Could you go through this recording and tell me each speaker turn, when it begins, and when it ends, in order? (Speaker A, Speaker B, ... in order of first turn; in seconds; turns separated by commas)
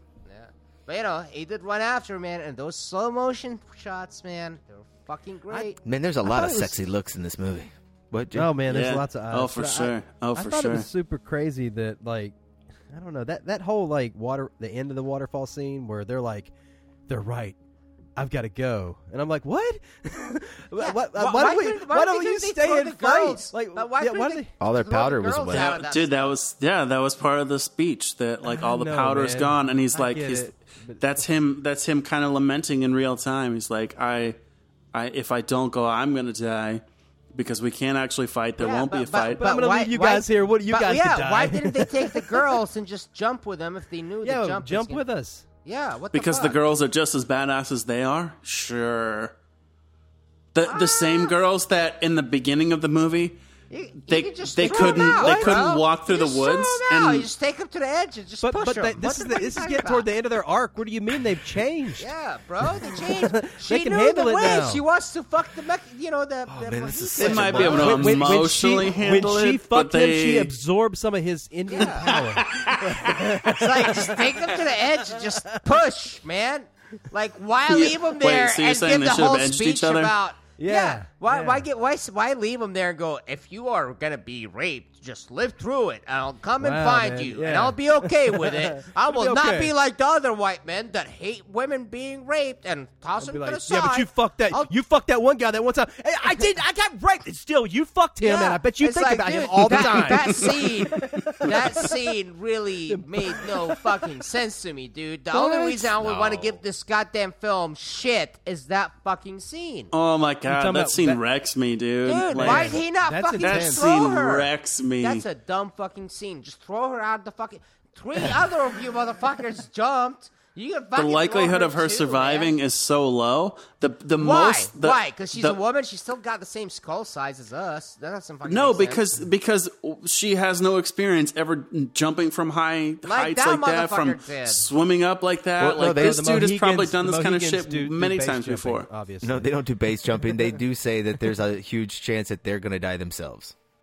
Speaker A: 0.2-5.8, Speaker B: 5.8-8.6, Speaker C: 6.2-6.8, Speaker C: 8.3-12.3, Speaker D: 8.7-10.9, Speaker C: 12.9-16.5, Speaker C: 17.1-17.6, Speaker C: 18.2-24.5, Speaker A: 20.8-26.4, Speaker B: 24.6-25.7, Speaker D: 25.5-34.4, Speaker C: 28.4-31.0, Speaker D: 34.9-36.8, Speaker D: 37.3-39.5, Speaker A: 38.6-45.0, Speaker C: 39.4-42.5, Speaker C: 44.2-45.5, Speaker A: 45.6-46.6, Speaker D: 46.1-49.4, Speaker D: 50.5-53.4, Speaker A: 50.7-51.3, Speaker A: 53.7-60.1, Speaker D: 54.1-57.3, Speaker C: 54.6-55.6, Speaker C: 58.4-62.1, Speaker A: 62.0-68.1, Speaker C: 62.8-64.8, Speaker B: 66.5-68.3, Speaker D: 67.2-70.5, Speaker C: 67.7-74.2, Speaker A: 71.7-72.2, Speaker D: 72.4-73.1, Speaker A: 73.5-94.7, Speaker D: 77.7-80.1, Speaker C: 80.6-81.7, Speaker C: 86.6-89.7, Speaker C: 93.2-102.0, Speaker A: 98.2-109.9, Speaker C: 102.9-104.0, Speaker B: 105.3-106.6, Speaker D: 109.9-112.8, Speaker C: 110.5-111.2, Speaker A: 112.0-114.5, Speaker C: 112.3-113.9, Speaker D: 113.4-115.2, Speaker A: 115.0-122.5, Speaker D: 121.0-125.6, Speaker A: 124.2-129.0, Speaker D: 128.4-138.9, Speaker A: 133.1-134.7, Speaker B: 135.6-136.2, Speaker C: 135.9-139.5, Speaker B: 139.2-143.5